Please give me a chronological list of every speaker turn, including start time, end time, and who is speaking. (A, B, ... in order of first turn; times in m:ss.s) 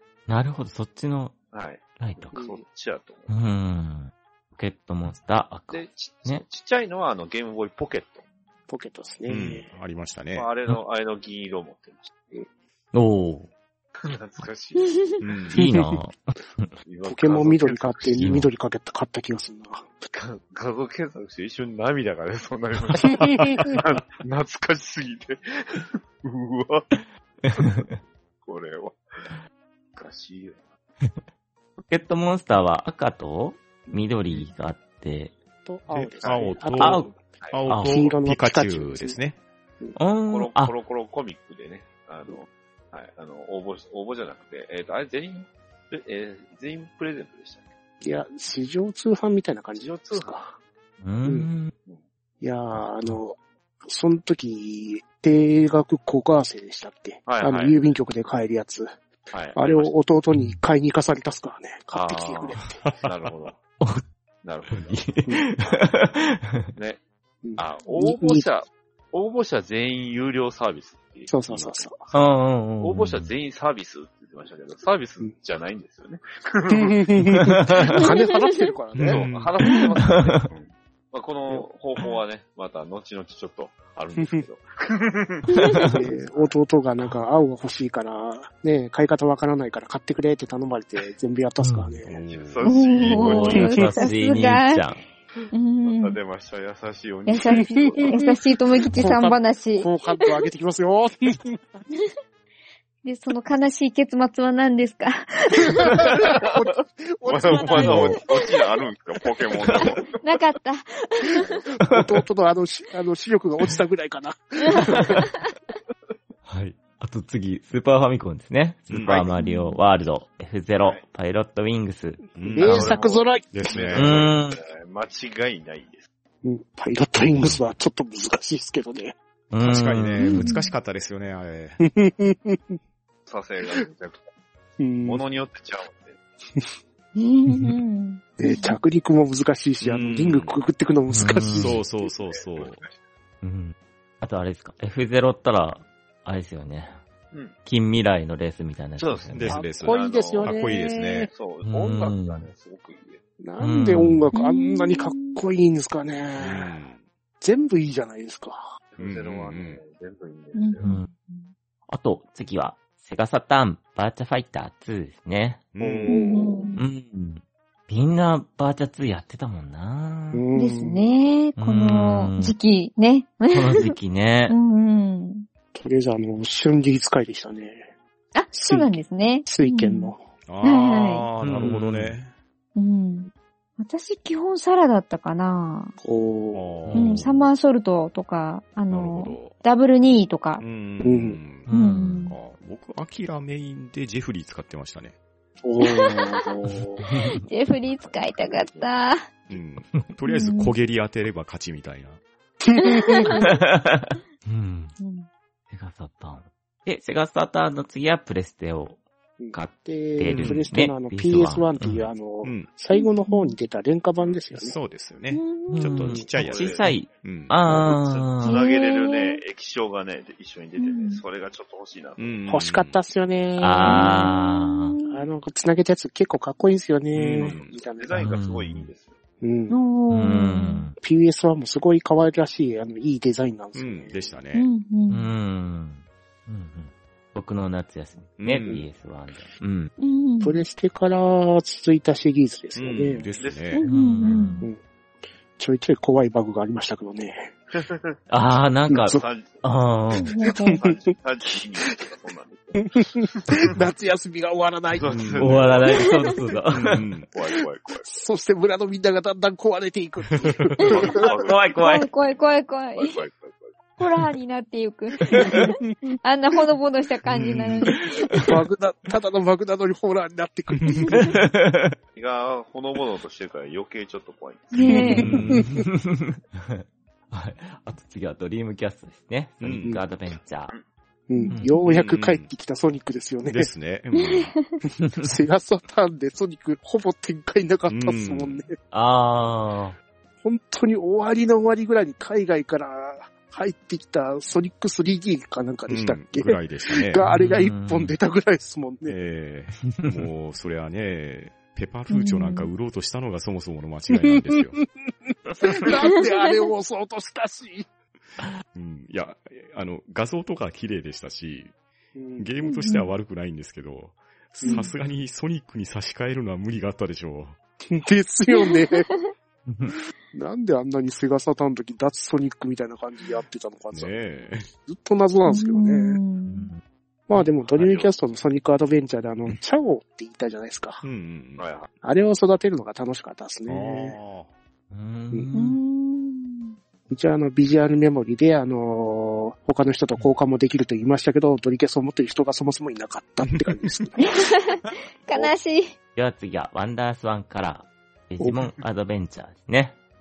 0:00.3-0:01.4 A
0:01.5-0:03.4 B
0:02.0-0:02.4 A
0:02.4-0:02.6 C
0:03.3-0:06.4 A
0:05.7-0:08.2 B
0:08.7-0:09.7 C
0:09.3-0:10.5 D
0:10.3-0:12.1 B
0:12.9-0:13.5 A
0:14.0-0:15.0 B
0:15.2-0:15.6 D
0:15.5-0:16.0 C
0:15.5-0:16.7 A
0:16.8-0:18.4 B
0:17.1-0:19.9 C
0:18.2-0:18.5 A
0:20.1-0:26.9 B
0:23.0-0:23.8 C
0:27.0-0:27.9 A
0:27.5-0:27.8 B
0:28.4-0:29.4 B
0:29.9-0:30.7 B
0:31.9-0:35.3 A
0:35.6-0:37.2 C
0:35.9-0:39.4 D
0:36.2-0:36.5 B
0:36.8-0:37.1 A
0:37.4-0:37.6 B
0:37.7-0:38.0 A
0:37.8-0:39.2 C
0:40.0-0:40.7 A
0:40.3-0:47.6 B
0:48.0-0:50.4 C
0:49.7-0:50.6 B
0:51.0-0:51.7 A
0:52.4-0:58.9 C
0:57.3-0:57.8 B
0:59.3-0:59.9 B
0:59.6-1:02.8 C
1:00.3-1:00.6 A
1:01.9-1:03.6 B
1:03.8-1:04.1 A
1:04.4-1:05.1 B
1:04.7-1:06.7 A
1:06.8-1:07.0 B
1:07.4-1:08.5 C
1:07.6-1:17.0 B
1:11.3-1:11.9 C
1:12.1-1:13.3 A
1:16.7-1:19.3 C
1:17.4-1:17.8 A
1:19.0-1:19.2 A
1:19.0-1:19.5 D
1:19.0-1:26.6 B
1:20.0-1:20.4 A
1:25.6-1:25.9 A
1:25.6-1:25.9 E
1:25.9-1:32.2 C
1:31.6-1:32.0 A
1:32.1-1:32.8 D
1:32.3-1:34.0 B
1:32.6-1:34.9 E
1:33.0-1:35.0 A
1:35.5-1:36.2 E
1:35.8-1:38.2 B
1:37.3-1:39.9 E
1:37.5-1:38.3 C
1:38.9-1:41.8 C
1:43.0-1:46.1 E
1:45.8-1:48.3 C
1:46.2-1:46.7 B
1:47.2-1:50.2 B
1:47.5-1:48.5 E
1:49.6-1:49.9 A
1:50.2-1:51.6 E
1:51.8-1:55.2 C
1:56.4-2:02.2 A
1:58.9-1:59.3 D
1:59.4-1:59.8 E
2:00.8-2:01.0 B
2:02.4-2:03.0 D
2:02.4-2:03.5 C
2:02.6-2:06.0 B
2:03.5-2:04.3 D
2:03.9-2:04.6 A
2:06.4-2:09.2 C
2:07.3-2:07.6 A
2:09.5-2:10.4 A
2:09.6-2:11.8 D
2:10.2-2:10.7 E
2:11.8-2:12.8 C
2:13.3-2:14.3 B
2:14.8-2:15.2 C
2:15.0-2:16.2 B
2:17.1-2:18.8 E
2:17.5-2:17.8 A
2:18.4-2:21.8 C
2:19.8-2:20.6 D
2:21.1-2:21.8 A
2:21.6-2:22.8 D
2:22.0-2:22.9 B
2:23.4-2:27.0 A
2:27.6-2:29.6 A
2:29.0-2:30.7 B
2:29.3-2:31.3 D
2:29.5-2:31.3 C
2:31.3-2:33.2 B
2:31.6-2:32.5 A
2:33.4-2:36.8 C
2:33.6-2:34.2 A
2:34.3-2:35.4 E
2:36.4-2:37.0 D
2:37.4-2:38.7 C
2:38.9-2:40.9 B
2:39.0-2:39.8 D
2:40.6-2:41.5 E
2:40.8-2:41.1 A
2:41.9-2:45.6 A
2:45.8-2:46.3 D
2:45.8-2:46.8 C
2:46.1-2:46.8 E
2:46.8-2:50.4 A
2:50.3-2:51.0 C
2:50.6-2:53.9 E
2:51.6-2:52.6 A
2:53.5-2:54.6 A
2:54.5-2:55.4 E
2:55.7-2:57.9 C
2:58.4-3:01.3 E
2:58.5-3:00.2 C
3:00.5-3:02.3 D
3:01.4-3:02.2 A
3:02.8-3:06.0 E
3:06.0-3:06.8 C
3:06.5-3:07.5 D
3:06.9-3:07.3 A
3:06.9-3:10.6 E
3:08.9-3:09.6 D
3:10.6-3:11.7 D
3:11.0-3:11.4 C
3:11.7-3:12.3 A
3:11.7-3:12.4 E
3:12.2-3:15.1 D
3:15.6-3:17.0 C
3:15.8-3:16.3 E
3:17.0-3:17.4 A
3:17.0-3:19.3 E
3:18.5-3:18.8 B
3:19.5-3:22.2 D
3:20.3-3:20.8 E
3:22.6-3:23.4 C
3:22.9-3:23.4 E
3:23.4-3:25.0 A
3:25.0-3:25.3 E
3:25.7-3:29.0 A
3:29.4-3:34.8 C
3:29.5-3:32.1 A
3:30.2-3:30.7 D
3:32.4-3:32.7 D
3:32.9-3:33.6 E
3:34.5-3:37.5 D
3:35.3-3:36.2 E
3:35.7-3:38.6 A
3:36.3-3:36.9 B
3:37.6-3:42.5 B
3:38.4-3:39.4 E
3:40.8-3:41.2 E
3:42.2-3:43.0 D
3:42.5-3:44.3 C
3:43.6-3:45.0 A
3:43.8-3:45.2 E
3:45.1-3:48.3 C
3:47.1-3:47.7 D
3:47.4-3:49.2 B
3:48.1-3:48.9 A
3:49.4-3:49.8 C
3:49.7-3:50.9 E
3:50.1-3:51.0 A
3:51.0-3:54.3 C
3:53.8-3:54.7 D
3:54.5-3:55.2 E
3:55.1-3:59.9 A
3:58.4-3:58.8 D
4:00.0-4:00.6 E
4:00.4-4:03.3 C
4:02.8-4:03.8 D
4:03.4-4:04.4 B
4:03.7-4:04.7 E
4:03.9-4:04.6 A
4:05.6-4:07.6 C
4:07.8-4:08.2 B
4:08.3-4:10.3 A
4:08.9-4:09.2 C
4:09.0-4:09.8 B
4:10.2-4:10.8 E
4:10.4-4:12.1 C
4:10.6-4:13.7 B
4:12.8-4:15.2 C
4:14.9-4:16.0 B
4:15.1-4:15.7 D
4:15.4-4:17.0 A
4:16.7-4:17.3 D
4:17.3-4:18.1 B
4:18.1-4:21.1 C
4:20.4-4:21.0 D
4:20.9-4:23.8 B
4:21.2-4:22.1 A
4:21.8-4:23.2 E
4:24.0-4:28.5 E
4:25.4-4:25.9 C
4:27.3-4:27.9 D
4:28.4-4:31.2 C
4:30.9-4:31.3 D
4:31.1-4:31.9 A
4:32.2-4:35.1 B
4:34.7-4:35.6 E
4:34.8-4:35.6 C
4:35.0-4:40.7 A
4:35.2-4:35.7 D
4:39.6-4:40.0 D
4:41.3-4:43.7 C
4:41.4-4:41.7 E
4:41.8-4:42.5 D
4:43.4-4:44.6 D
4:44.2-4:44.6 E
4:44.9-4:48.7 C
4:47.9-4:48.6 D
4:48.9-4:50.0 A
4:50.4-4:59.2 C
4:55.9-4:57.2 D
4:57.2-4:58.1 A
4:59.1-5:04.8 D
5:02.1-5:02.7 E
5:04.1-5:07.9 C
5:08.7-5:11.7 D
5:12.1-5:12.5 C
5:12.4-5:17.6 D
5:12.6-5:13.1 E
5:14.6-5:14.9 E
5:17.9-5:19.1 C
5:18.5-5:19.1 E
5:19.6-5:19.9 A
5:20.3-5:24.2 C
5:23.9-5:24.7 D
5:24.7-5:26.2 C
5:25.4-5:26.7 E
5:26.4-5:26.8 A
5:27.3-5:31.0 C
5:27.7-5:28.1 B
5:31.0-5:31.6 D
5:31.6-5:31.9 B
5:32.0-5:34.2 C
5:33.7-5:34.5 D
5:34.9-5:35.8 A
5:35.5-5:36.8 E
5:37.1-5:44.4 C
5:43.5-5:44.0 D
5:44.3-5:45.9 E
5:46.1-5:50.0 A